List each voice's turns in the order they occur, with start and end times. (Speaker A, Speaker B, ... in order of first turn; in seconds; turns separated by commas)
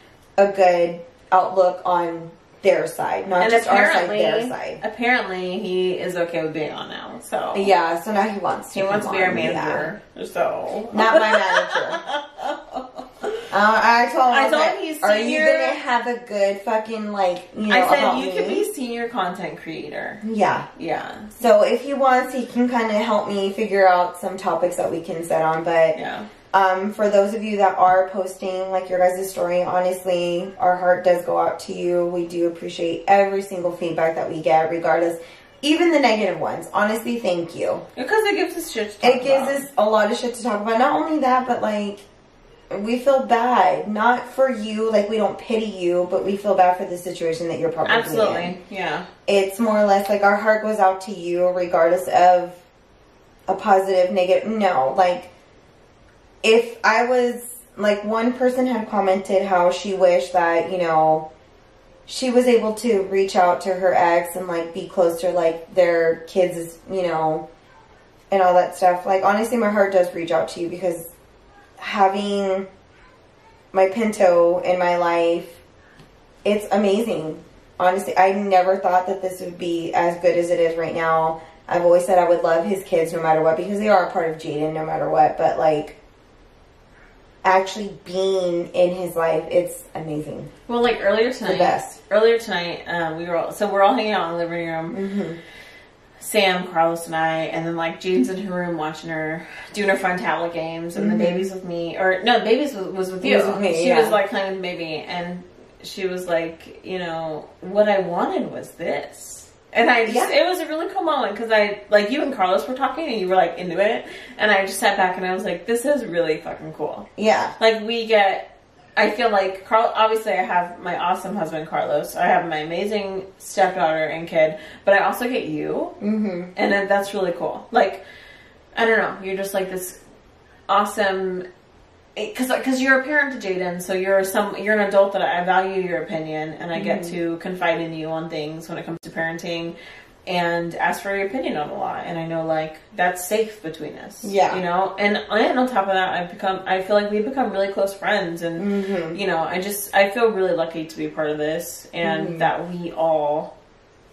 Speaker A: 0.4-4.8, Speaker B: 3.4-7.7, Speaker A: 7.5-9.9, Speaker B: 8.7-13.4, Speaker A: 10.9-12.0, Speaker A: 13.5-18.6, Speaker B: 14.3-15.8, Speaker B: 17.7-20.2, Speaker A: 20.2-20.7, Speaker B: 20.8-21.3, Speaker A: 21.4-25.9, Speaker B: 25.9-26.3, Speaker A: 26.5-37.8, Speaker B: 38.0-39.6, Speaker A: 39.0-42.0, Speaker A: 42.7-48.5, Speaker B: 47.8-49.0, Speaker A: 49.3-52.6, Speaker A: 53.5-55.3, Speaker A: 56.4-61.2, Speaker A: 62.1-67.4, Speaker A: 68.3-71.1, Speaker A: 71.8-72.7, Speaker A: 73.7-75.6, Speaker A: 76.4-86.0, Speaker A: 87.4-90.5, Speaker B: 90.7-95.0, Speaker A: 91.5-92.0, Speaker A: 94.9-95.4, Speaker B: 96.2-117.1, Speaker A: 101.0-101.5, Speaker A: 103.2-104.2, Speaker A: 110.0-110.3, Speaker A: 117.2-117.5, Speaker B: 117.6-126.0, Speaker A: 126.0-126.5, Speaker B: 126.5-128.0, Speaker B: 128.7-130.0, Speaker B: 130.7-131.4, Speaker B: 132.2-139.7, Speaker A: 136.7-137.2, Speaker B: 140.2-153.5, Speaker A: 144.2-144.6, Speaker A: 148.6-149.2, Speaker A: 152.0-152.5